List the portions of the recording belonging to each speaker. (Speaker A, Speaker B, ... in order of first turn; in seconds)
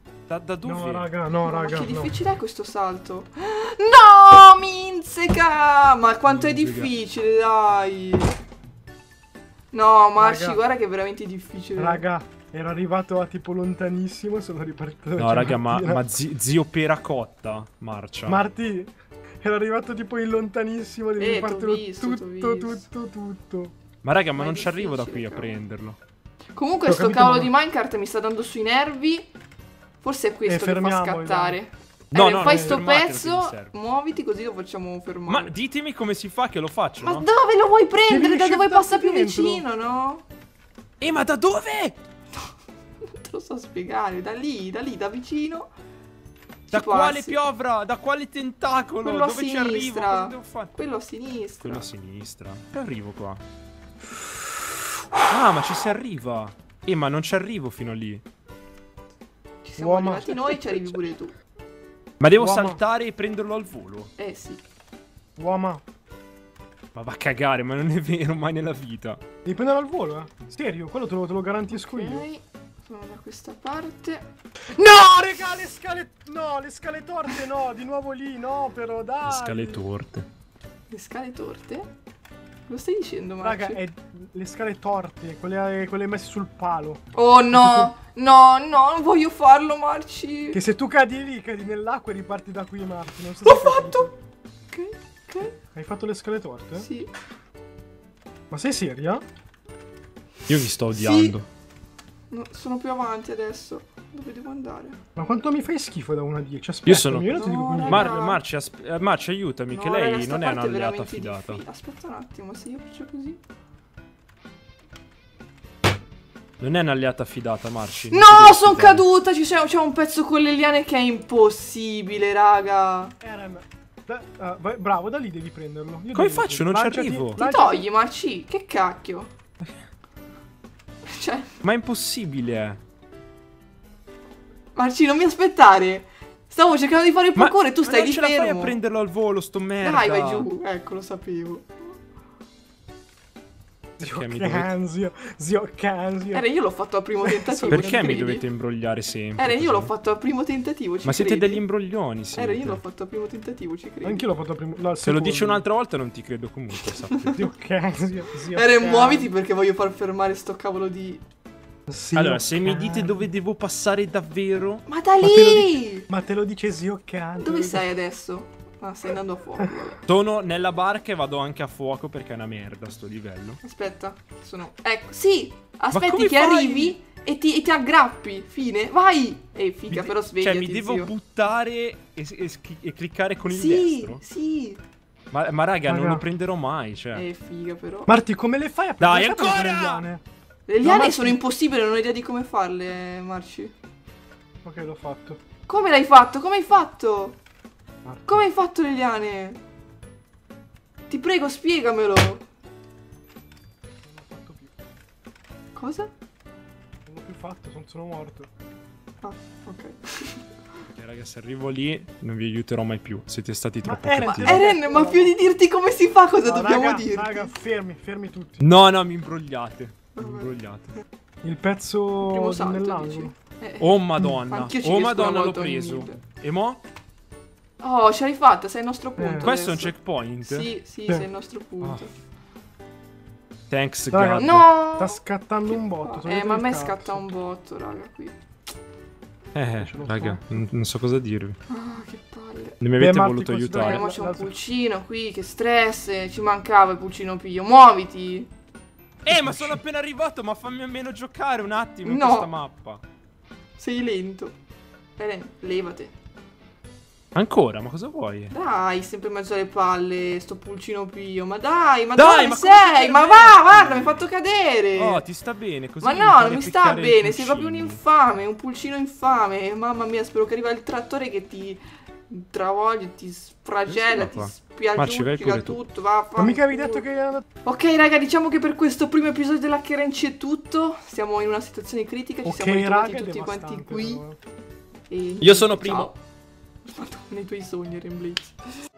Speaker A: 0.3-1.1, 6.3-6.9, 15.2-18.4, 24.0-26.0, 32.1-33.7, 35.3-37.2, 41.0-42.0, 46.7-50.7, 51.6-53.4, 55.3-58.2, 62.2-64.1, 66.9-69.2, 79.2-80.2, 100.5-101.5, 106.9-111.6, 116.6-119.0, 126.1-127.4, 131.6-132.8, 137.4-140.5, 144.0-144.7, 147.7-149.9, 151.0-152.8, 155.0-157.4, 162.2-164.8, 170.1-173.6, 175.9-177.0, 179.9-184.2, 185.3-187.2, 189.0-190.1, 210.9-214.6, 218.6-220.9, 223.8-226.8, 229.4-230.7, 233.7-234.6, 239.6-241.6, 242.8-244.1, 249.2-253.0, 257.3-258.5, 262.2-264.2, 265.0-268.0, 273.9-275.8, 285.4-286.1
Speaker B: 0.6-2.2, 10.2-10.6, 11.8-16.1, 18.2-18.9, 19.4-23.7, 26.9-27.5, 30.5-31.6, 32.4-32.8, 38.1-39.6, 59.8-60.8, 62.3-62.8, 65.4-65.8, 69.5-72.2, 74.8-79.8, 83.4-87.0, 87.5-87.9, 90.5-94.1, 95.7-96.9, 98.5-99.2, 105.2-108.4, 123.2-127.8, 144.0-146.5, 147.2-148.2, 154.0-155.6, 157.3-159.3, 161.9-163.2, 165.2-167.9, 185.9-186.2, 188.1-190.2, 190.8-191.4, 194.6-195.4, 204.1-204.7, 207.1-208.5, 213.8-215.4, 216.4-218.7, 221.4-223.3, 229.2-229.5, 234.1-237.2, 239.8-240.5, 243.0-244.6, 249.3-249.8, 276.4-277.4, 282.4-284.4
Speaker C: 1.4-8.3, 9.7-12.0, 21.2-22.9, 24.4-25.6, 26.6-29.3, 30.0-35.5, 37.0-40.2, 43.1-45.7, 46.7-47.4, 49.0-51.9, 59.6-61.3, 64.2-64.6, 71.7-74.2, 80.9-81.9, 82.7-83.8, 87.1-90.6, 93.4-94.1, 94.7-95.6, 96.8-97.1, 100.9-101.4, 102.3-105.0, 107.3-108.4, 109.7-113.4, 118.1-123.1, 127.4-129.3, 131.1-131.6, 134.8-138.8, 139.8-141.7, 146.3-148.4, 149.4-151.7, 152.3-154.2, 158.5-161.2, 164.9-166.1, 167.4-170.0, 173.6-181.1, 183.5-184.8, 187.2-188.1, 190.7-193.7, 195.7-197.4, 198.2-199.6, 201.1-202.4, 205.8-206.1, 209.2-210.5, 214.2-217.5, 220.2-220.5, 222.2-226.2, 227.8-232.1, 234.4-235.2, 235.7-238.4, 241.7-242.8, 243.7-248.5, 252.1-252.5, 253.8-254.6, 255.2-256.1, 258.5-265.2, 266.0-277.0, 277.6-284.2, 285.1-286.2, 286.9-288.6